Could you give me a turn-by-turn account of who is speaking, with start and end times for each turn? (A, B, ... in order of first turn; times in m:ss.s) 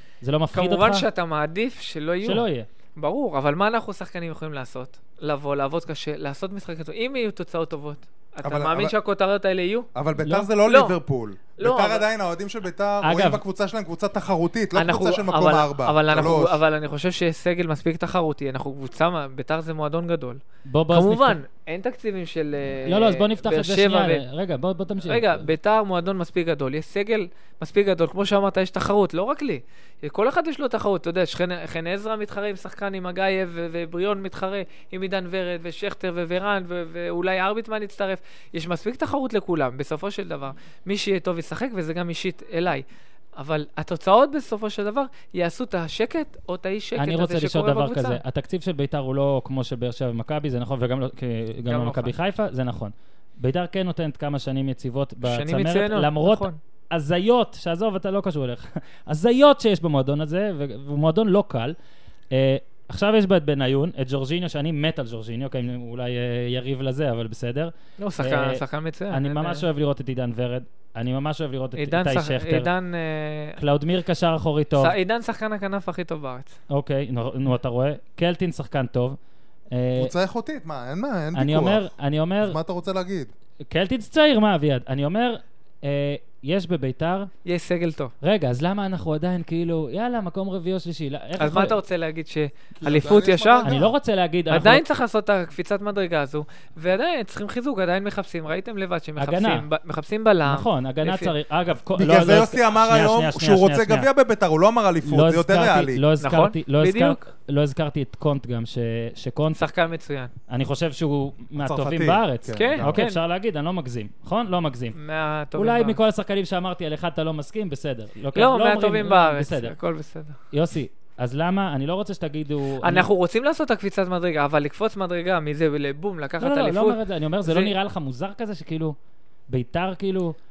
0:00.2-0:01.0 A
0:00.5-0:09.9 B
0:02.2-0:02.7 A
0:08.4-0:08.9 C
0:09.9-0:16.6 C
0:10.2-0:10.5 A
0:10.6-0:10.9 B
0:11.6-0:12.1 B
0:13.0-0:13.4 A
0:14.7-0:24.2 B
0:20.7-0:21.4 A
0:22.8-0:25.4 A
0:25.0-0:42.8 B
0:43.4-0:48.2 B
0:47.0-1:01.7 A
0:51.7-0:52.1 B
0:55.2-0:56.6 B
1:02.3-1:12.7 A
1:08.0-1:09.6 B
1:11.8-1:13.6 B
1:13.6-1:14.9 A
1:14.8-1:16.6 B
1:16.7-1:19.2 A
1:19.7-1:20.1 A
1:20.0-1:21.9 C
1:21.3-1:22.6 A
1:22.4-1:23.3 C
1:23.7-1:27.3 A
1:27.4-1:28.1 B
1:28.2-1:31.8 A
1:31.4-1:33.7 B
1:32.8-1:33.9 C
1:33.6-1:34.8 A
1:34.5-1:41.3 B
1:39.2-1:39.6 A
1:40.5-1:44.1 A
1:42.0-1:46.0 C
1:45.0-1:49.6 A
1:46.2-1:47.3 B
1:49.6-1:50.3 B
1:50.5-1:55.0 A
1:51.6-1:53.0 C
1:52.5-1:53.2 B
1:55.0-1:56.0 B
1:55.6-1:59.7 A
1:58.3-2:00.4 B
2:00.5-2:03.1 A
2:02.8-2:07.7 B
2:06.4-2:09.0 A
2:09.5-2:10.4 A